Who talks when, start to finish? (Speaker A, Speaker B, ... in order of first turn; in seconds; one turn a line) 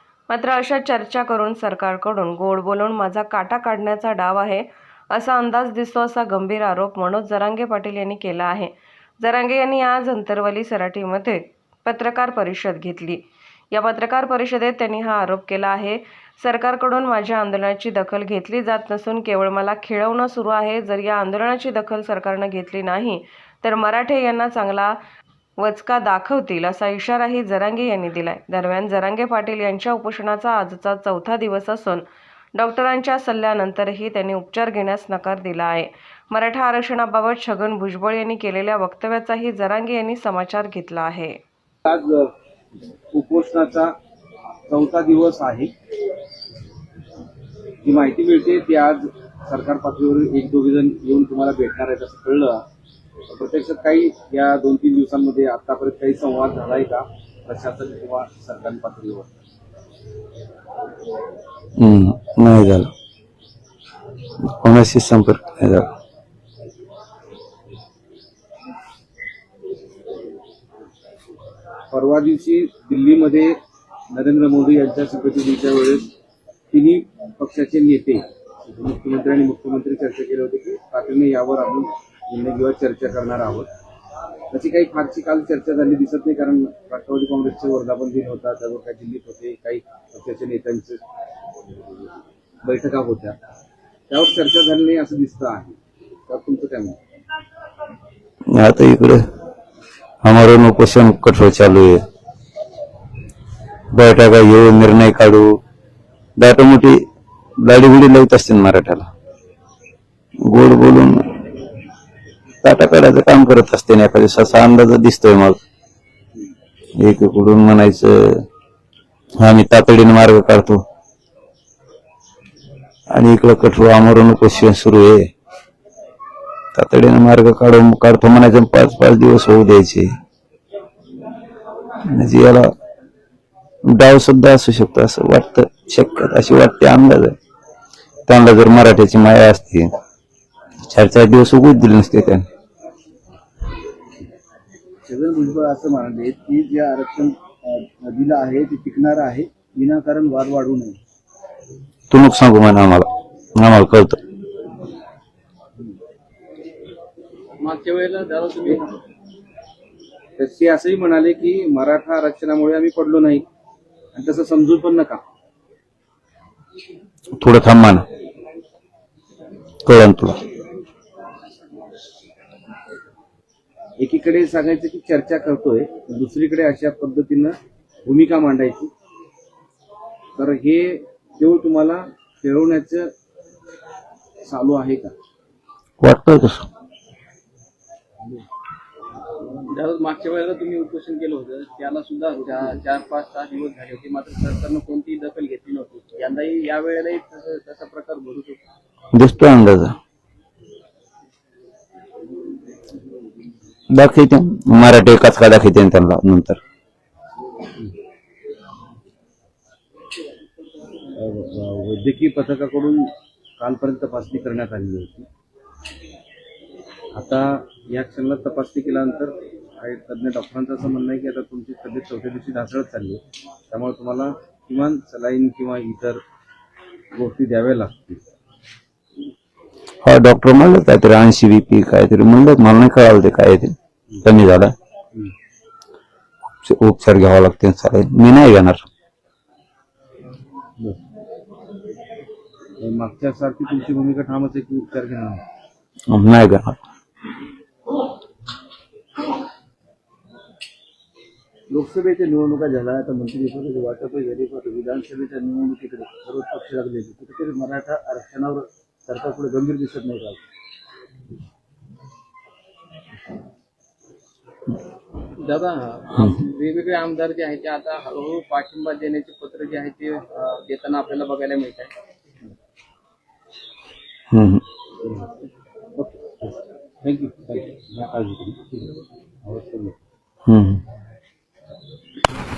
Speaker A: 0.3-25.0
Speaker A: 25.6-41.4
Speaker B: 41.9-42.3
Speaker B: 43.1-43.9
Speaker B: 44.7-45.7
Speaker B: 47.8-52.6
Speaker B: 53.3-59.3
Speaker C: 61.8-62.9
Speaker C: 64.4-65.9
Speaker B: 71.9-73.6
Speaker B: 74.1-76.1
Speaker B: 76.7-83.7
Speaker B: 84.5-91.0
Speaker B: 92.6-93.4
Speaker B: 94.1-97.0
Speaker C: 98.6-99.2
Speaker C: 100.2-102.0
Speaker C: 103.9-105.5
Speaker C: 106.4-107.0
Speaker C: 107.6-109.1
Speaker C: 110.5-111.3
Speaker C: 112.6-115.6
Speaker C: 117.0-118.5
Speaker C: 119.4-120.8
Speaker C: 123.1-125.3
Speaker C: 126.7-130.1
Speaker C: 132.1-132.7
Speaker C: 133.8-137.3
Speaker C: 138.3-139.9
Speaker C: 140.8-142.5
Speaker B: 145.1-151.0
Speaker C: 152.1-154.2
Speaker D: 157.6-159.0
Speaker B: 160.4-163.4
Speaker B: 164.1-165.2
Speaker C: 167.4-168.0
Speaker C: 169.8-170.4
Speaker B: 174.0-178.9
Speaker B: 180.3-183.1
Speaker B: 184.4-185.1
Speaker C: 186.0-186.7
Speaker D: 189.5-198.7
Speaker C: 199.1-199.9
Speaker C: 203.9-206.6
Speaker B: 211.2-215.3
Speaker B: 217.1-226.2
Speaker B: 227.1-228.2
Speaker C: 230.0-234.7
Speaker C: 236.6-238.8
Speaker B: 242.8-245.4
Speaker C: 246.1-246.8
Speaker B: 251.7-260.4
Speaker D: 265.4-271.9
Speaker C: 274.3-274.6
Speaker B: 275.9-278.9
Speaker B: 279.4-280.0
Speaker C: 280.4-280.8